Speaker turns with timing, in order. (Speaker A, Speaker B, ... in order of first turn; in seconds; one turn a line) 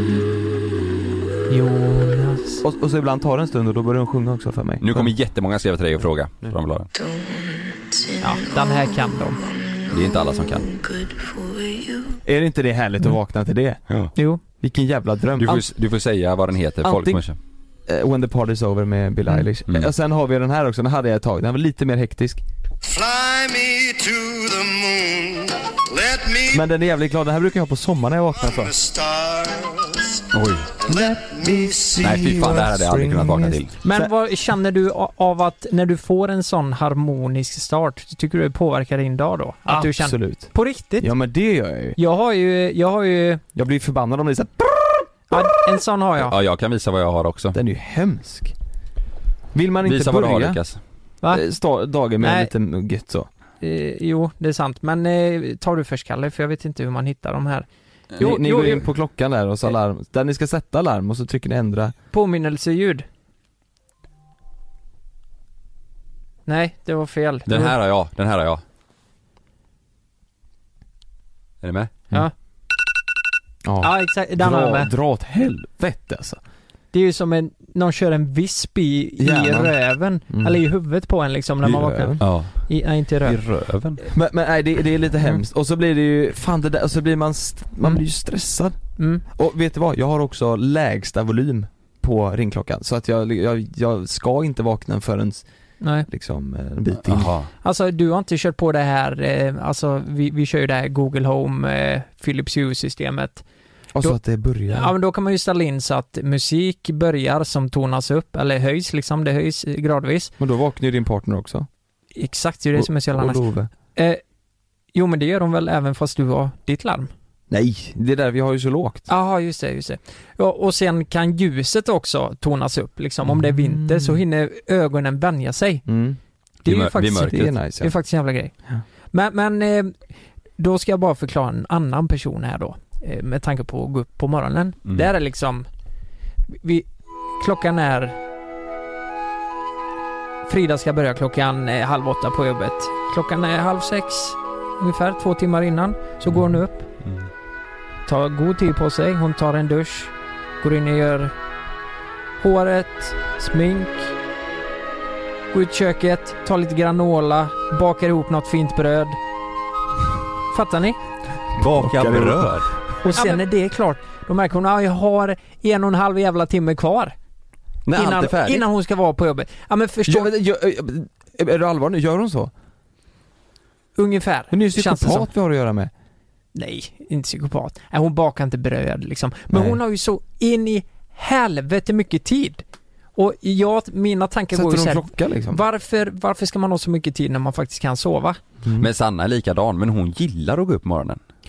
Speaker A: 1.5-2.6
Speaker B: 2.6-5.1
Speaker C: 4.8-6.9
Speaker A: 8.2-9.4
Speaker C: 9.9-10.7
Speaker B: 12.2-13.8
Speaker A: 14.2-14.4
Speaker B: 14.6-15.7
Speaker C: 15.4-17.4
Speaker B: 16.8-17.2
Speaker B: 17.9-22.4
Speaker D: 22.9-26.6
Speaker B: 26.5-28.8
Speaker D: 28.5-30.2
Speaker C: 30.3-30.7
Speaker B: 30.9-34.1
Speaker D: 30.9-32.0
Speaker C: 32.0-33.7
Speaker A: 33.8-41.1
Speaker B: 39.7-42.0
Speaker A: 42.0-43.4
Speaker B: 43.6-45.1
Speaker A: 45.3-46.3
Speaker C: 46.2-47.6
Speaker B: 47.5-48.5
Speaker B: 49.5-50.6
Speaker C: 49.8-50.8
Speaker B: 51.3-53.3
Speaker A: 52.2-52.5
Speaker A: 53.6-57.7
Speaker A: 58.2-58.9
Speaker B: 58.2-61.9
Speaker A: 62.1-63.1
Speaker A: 66.5-67.7
Speaker C: 67.5-68.6
Speaker C: 71.6-72.0
Speaker B: 73.7-76.4
Speaker A: 73.8-74.9
Speaker A: 76.9-83.4
Speaker B: 79.2-79.7
Speaker B: 80.3-80.6
Speaker B: 81.6-82.3
Speaker C: 82.2-82.7
Speaker C: 83.2-84.0
Speaker B: 84.1-88.8
Speaker A: 89.0-89.2
Speaker B: 89.3-95.5
Speaker A: 95.8-96.1
Speaker B: 96.1-97.3
Speaker C: 97.0-97.5
Speaker A: 97.6-103.4
Speaker B: 103.9-104.9
Speaker A: 104.7-110.3
Speaker B: 110.4-111.7
Speaker A: 112.2-113.4
Speaker B: 112.8-113.7
Speaker A: 114.0-114.2
Speaker A: 114.9-117.1
Speaker B: 117.5-119.1
Speaker A: 119.1-125.8
Speaker B: 123.3-124.2
Speaker B: 125.9-126.2
Speaker A: 126.7-128.5
Speaker C: 126.7-127.5
Speaker B: 127.3-127.9
Speaker A: 129.1-129.9
Speaker A: 130.6-135.7
Speaker A: 136.6-136.9
Speaker A: 137.4-138.2
Speaker A: 140.5-146.9
Speaker C: 147.0-147.3
Speaker A: 148.1-151.3
Speaker A: 152.4-154.1
Speaker A: 155.5-159.2
Speaker A: 160.5-161.0
Speaker C: 161.6-162.7
Speaker B: 161.6-163.3
Speaker A: 163.1-167.2
Speaker C: 167.9-168.6
Speaker A: 167.9-170.3
Speaker B: 170.1-172.5
Speaker A: 174.0-175.3
Speaker B: 174.5-175.9
Speaker A: 176.6-182.6
Speaker B: 179.5-179.8
Speaker A: 183.2-188.4
Speaker B: 184.5-185.6
Speaker B: 188.6-188.9
Speaker C: 188.8-191.2